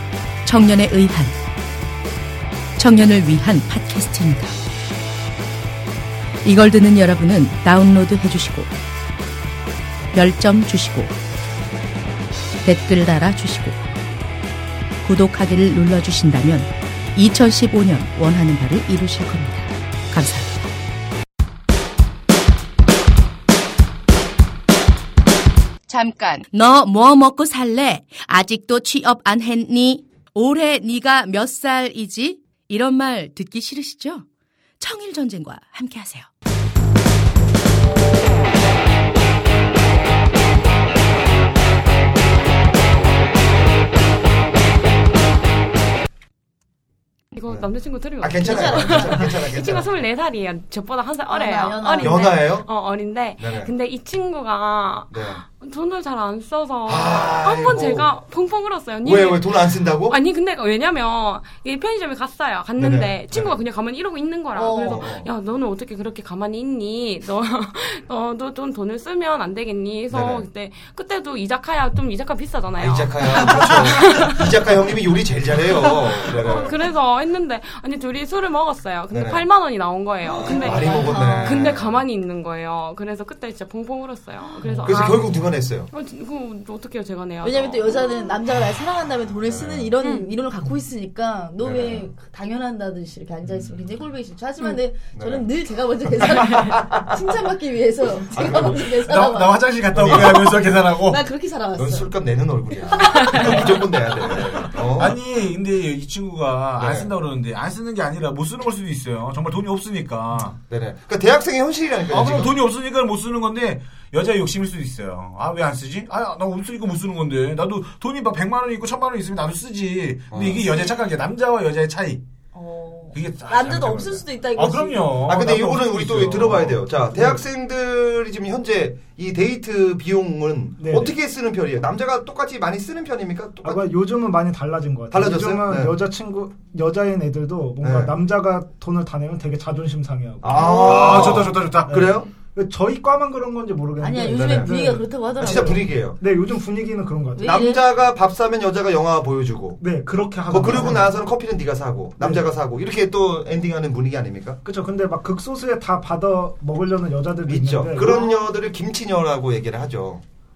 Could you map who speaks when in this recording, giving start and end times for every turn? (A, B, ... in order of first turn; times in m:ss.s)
0:00.4-0:01.4 A
0:02.8-0:04.6 A
0:06.4-0:08.7 A
0:10.1-0:11.2 A
0:12.6-0:13.8 A
0:15.0-0:20.7 A
0:25.9-0:34.3 A
0:34.8-0:36.3 A
0:47.3-1:14.5 B
0:48.2-0:49.9 C
0:48.4-0:49.3 D
0:51.3-0:52.3 D
0:52.0-0:52.7 C
0:53.4-0:53.7 C
0:55.1-0:55.4 C
0:56.9-0:58.1 C
0:59.0-1:00.2 C
1:02.8-1:03.6 C
1:04.6-1:05.0 D
1:04.8-1:05.3 C
1:10.1-1:10.5 C
1:12.8-1:16.7 C
1:15.8-1:25.2 B
1:19.1-1:19.4 C
1:20.3-1:22.0 C
1:20.4-1:21.7 D
1:24.7-1:25.0 E
1:24.8-1:25.9 C
1:25.9-1:28.0 B
1:27.4-1:42.1 D
1:29.5-1:29.9 C
1:30.0-1:30.3 B
1:31.6-1:32.1 C
1:35.2-1:35.5 C
1:36.2-1:37.1 C
1:38.3-1:39.0 C
1:39.0-1:41.2 F
1:39.9-1:40.6 C
1:41.8-1:45.2 C
1:42.9-1:43.8 D
1:44.8-1:50.6 F
1:46.8-1:47.1 C
1:50.7-1:52.5 C
1:52.1-2:02.2 F
2:00.3-2:00.7 C
2:02.5-2:05.2 D
2:03.1-2:06.8 F
2:05.3-2:13.9 C
2:07.1-2:07.4 E
2:10.8-2:11.2 E
2:13.6-2:27.8 E
2:15.1-2:16.0 C
2:17.8-2:18.1 C
2:20.4-2:22.3 C
2:20.6-2:22.0 F
2:24.0-2:25.8 D
2:24.3-2:24.8 C
2:25.4-2:26.2 C
2:27.4-2:27.8 D
2:27.4-2:29.8 C
2:29.8-2:31.2 E
2:30.5-2:34.6 C
2:32.2-2:32.5 E
2:34.6-2:38.3 E
2:37.5-2:40.2 C
2:38.0-2:38.4 D